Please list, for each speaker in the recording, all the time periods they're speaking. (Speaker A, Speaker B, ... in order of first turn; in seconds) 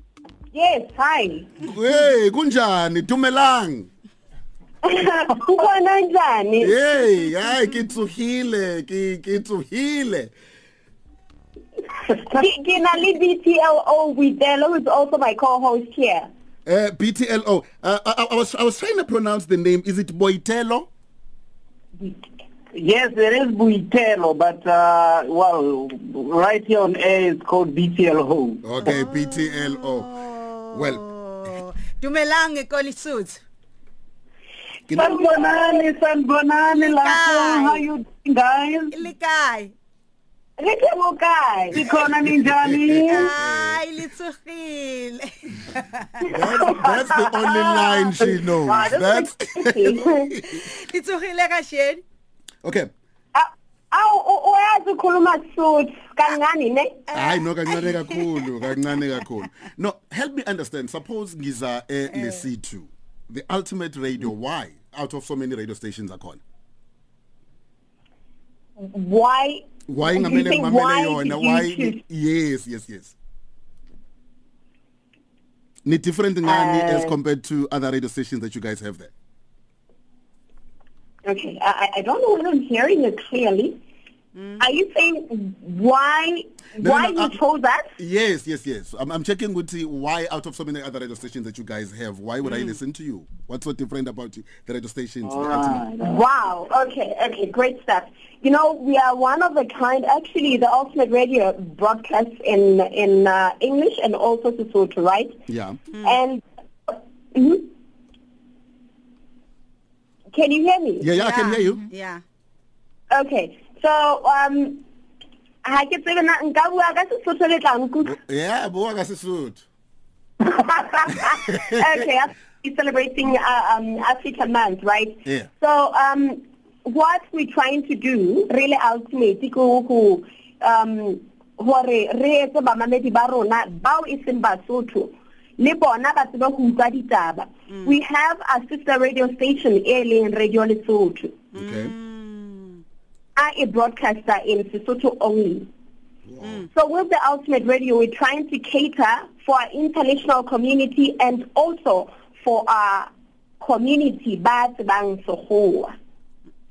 Speaker A: 0.5-1.4, 5.0-6.7, 12.6-16.3, 40.6-41.7, 46.5-47.3, 48.7-50.2, 53.4-57.2, 68.8-72.0, 76.4-77.1, 81.3-83.8, 84.6-87.9, 96.0-105.3, 106.0-107.7, 110.3-111.0, 113.1-114.8, 115.6-118.1, 120.7-141.3, 143.4-145.7, 146.7-153.1, 153.6-155.9
Speaker B: 1.6-3.9, 6.6-10.3, 16.7-20.9, 28.6-30.1, 30.7-31.0, 34.9-35.2, 41.7-43.8, 46.2-50.6, 52.6-52.9, 57.1-66.4, 69.9-73.2, 75.8-79.1, 86.8-87.4, 88.0-95.8, 105.5-105.8, 111.0-111.8, 118.0-119.7, 121.2-121.6, 141.6-141.9, 146.2-146.7
Speaker C: 22.7-28.9, 34.9-39.0, 41.7-43.3, 95.2-96.3
Speaker D: 28.8-33.4, 36.7-37.8, 38.9-39.7, 43.1-46.2, 47.7-47.9, 50.5-52.0, 84.3-84.7, 92.5-92.8, 105.9-106.2, 111.2-112.2, 137.7-138.0, 141.5-142.8, 146.4-146.7